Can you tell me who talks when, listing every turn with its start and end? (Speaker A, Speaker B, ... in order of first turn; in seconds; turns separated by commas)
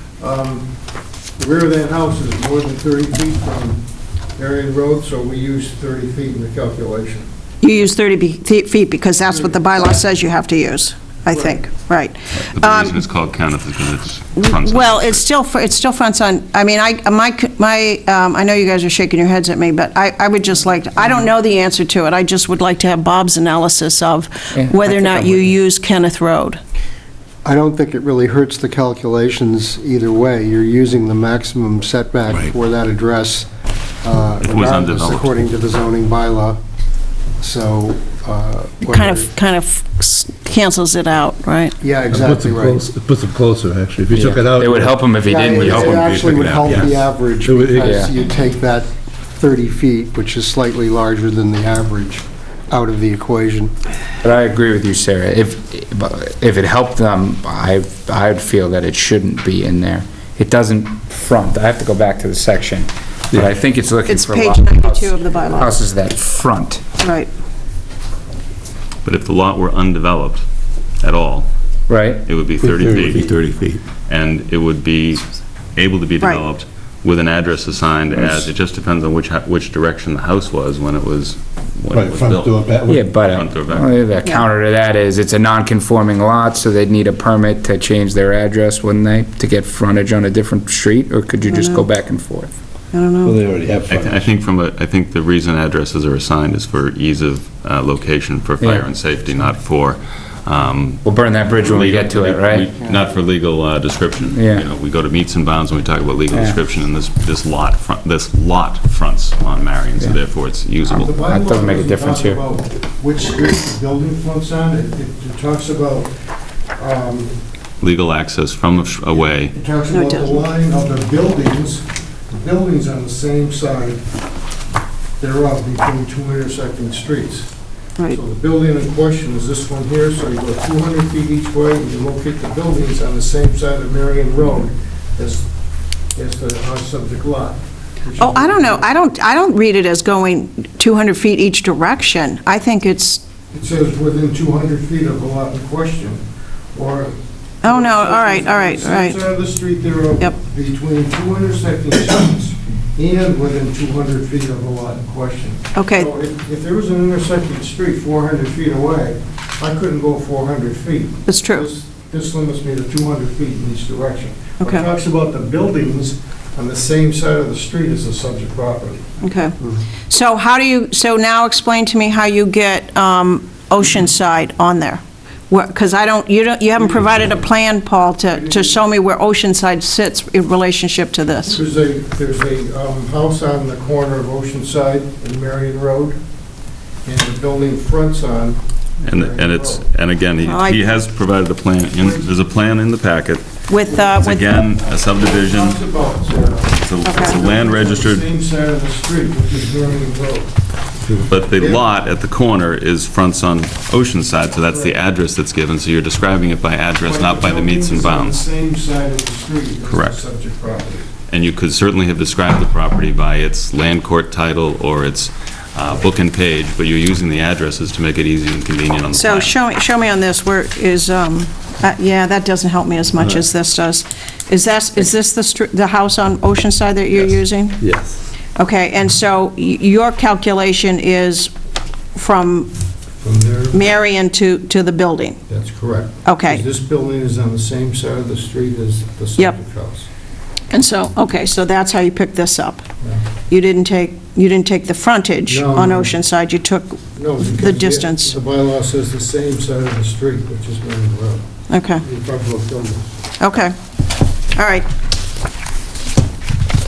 Speaker A: 0.2-0.7, Speaker A: 1.4-3.8, Speaker A: 4.3-7.3, Speaker B: 7.6-12.9, Speaker A: 9.3-9.9, Speaker A: 11.2-11.6, Speaker C: 12.4-15.2, Speaker B: 14.3-26.6, Speaker D: 24.6-25.5, Speaker E: 27.4-33.5, Speaker E: 34.0-36.6, Speaker C: 34.4-35.3, Speaker E: 37.4-39.3, Speaker B: 38.8-41.7, Speaker E: 41.8-42.8, Speaker F: 42.1-48.0, Speaker D: 44.1-46.2, Speaker E: 45.2-53.7, Speaker D: 47.8-48.1, Speaker D: 54.2-66.8, Speaker B: 64.1-65.8, Speaker B: 67.0-67.3, Speaker C: 69.0-70.4, Speaker C: 71.0-71.5, Speaker D: 71.9-72.2, Speaker C: 72.2-73.4, Speaker F: 72.6-73.8, Speaker C: 74.1-84.0, Speaker F: 81.9-83.2, Speaker D: 82.9-92.5, Speaker B: 91.4-91.9, Speaker B: 92.9-93.4, Speaker F: 93.2-94.3, Speaker C: 93.9-111.1, Speaker D: 98.6-98.8, Speaker D: 101.0-102.7, Speaker D: 104.2-104.7, Speaker D: 106.3-106.6, Speaker A: 110.9-116.1, Speaker D: 111.1-112.4, Speaker A: 116.8-117.3, Speaker C: 117.8-119.5, Speaker A: 119.1-124.0, Speaker B: 119.9-120.4, Speaker A: 125.2-127.5, Speaker A: 128.1-135.4, Speaker A: 136.1-138.9, Speaker B: 138.2-143.2, Speaker A: 143.5-146.2, Speaker A: 146.7-169.2, Speaker B: 147.6-149.2, Speaker B: 155.7-156.1, Speaker B: 161.3-161.7, Speaker B: 164.6-164.9, Speaker B: 169.2-169.6, Speaker B: 170.1-181.6, Speaker A: 176.8-177.4, Speaker A: 178.3-178.8, Speaker A: 181.4-186.2, Speaker A: 187.0-189.9, Speaker C: 189.0-193.5, Speaker B: 190.4-191.0, Speaker A: 191.9-192.3, Speaker B: 193.7-194.6, Speaker A: 193.8-194.3, Speaker C: 194.2-195.8, Speaker A: 194.8-200.5, Speaker C: 196.8-198.2, Speaker B: 197.0-197.3, Speaker C: 201.2-208.4, Speaker A: 201.5-201.8, Speaker A: 204.7-205.0, Speaker A: 207.0-211.1, Speaker C: 209.8-210.2, Speaker C: 211.3-219.5, Speaker B: 219.1-228.0, Speaker F: 227.8-228.1, Speaker B: 228.6-231.5, Speaker B: 232.1-232.7, Speaker A: 233.2-233.8, Speaker B: 233.7-235.4, Speaker A: 235.5-240.1, Speaker B: 236.2-236.6, Speaker B: 240.7-242.8, Speaker B: 243.5-248.4, Speaker A: 245.5-246.1, Speaker A: 247.1-251.4, Speaker B: 251.7-252.0, Speaker A: 252.0-253.1, Speaker B: 253.4-253.7, Speaker B: 254.5-254.9